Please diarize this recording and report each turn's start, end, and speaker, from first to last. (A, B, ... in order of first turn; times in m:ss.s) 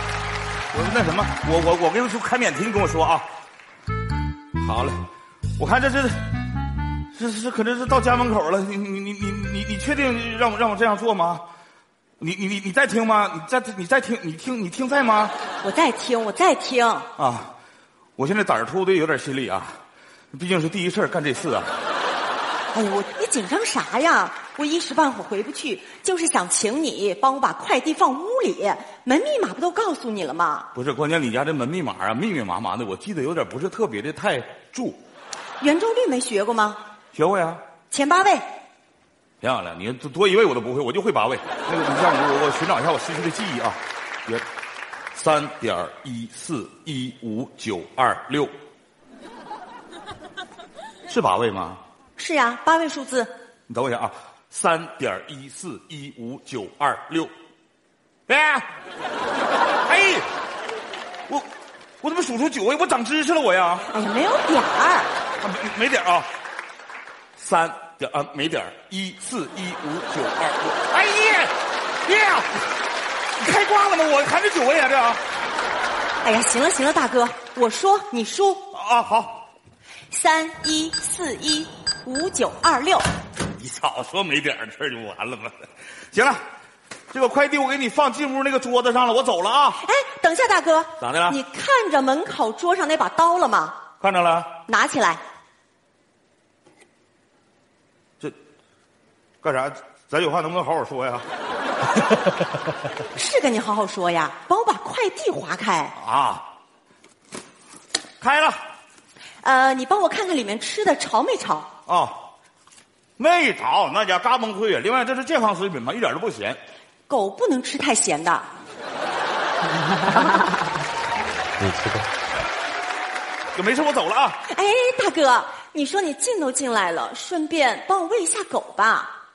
0:00.7-0:03.3 A
0:04.6-0:05.0 A
0:05.6-0:06.2 A
0:07.1-0:11.4 A
0:12.2-0:15.3 A
0:15.6-0:17.1 B
0:17.2-0:17.5 A
0:18.2-0:19.8 A
0:20.3-0:21.7 A
0:22.7-0:30.7 B
0:30.8-0:35.0 A
0:35.6-0:36.8 B
0:37.1-0:37.6 A
0:37.9-0:38.5 B
0:39.4-0:44.4 A
0:45.1-0:48.5 A
0:51.1-0:51.8 A
0:52.2-0:53.3 B
0:53.7-0:57.3 A
0:58.3-0:58.7 A
0:59.9-1:00.3 A
1:02.0-1:03.9 A
1:03.9-1:05.1 B
1:05.4-1:06.3 A
1:07.4-1:11.5 A
1:12.0-1:12.6 A
1:13.4-1:15.2 A
1:16.2-1:18.6 B
1:18.7-1:19.4 A
1:20.1-1:23.1 B
1:23.6-1:25.6 A
1:26.1-1:26.4 A
1:27.1-1:29.8 A
1:29.8-1:33.8 B
1:31.0-1:31.4 A
1:34.0-1:34.6 A
1:34.7-1:35.2 B
1:39.4-1:41.3 A
1:43.1-1:45.9 B
1:46.0-1:46.5 A
1:48.2-1:48.6 A
1:49.4-1:51.7 B
1:51.9-1:52.2 A
1:53.2-1:56.6 A
1:57.1-1:58.4 B
2:03.6-2:04.4 A
2:04.5-2:09.1 B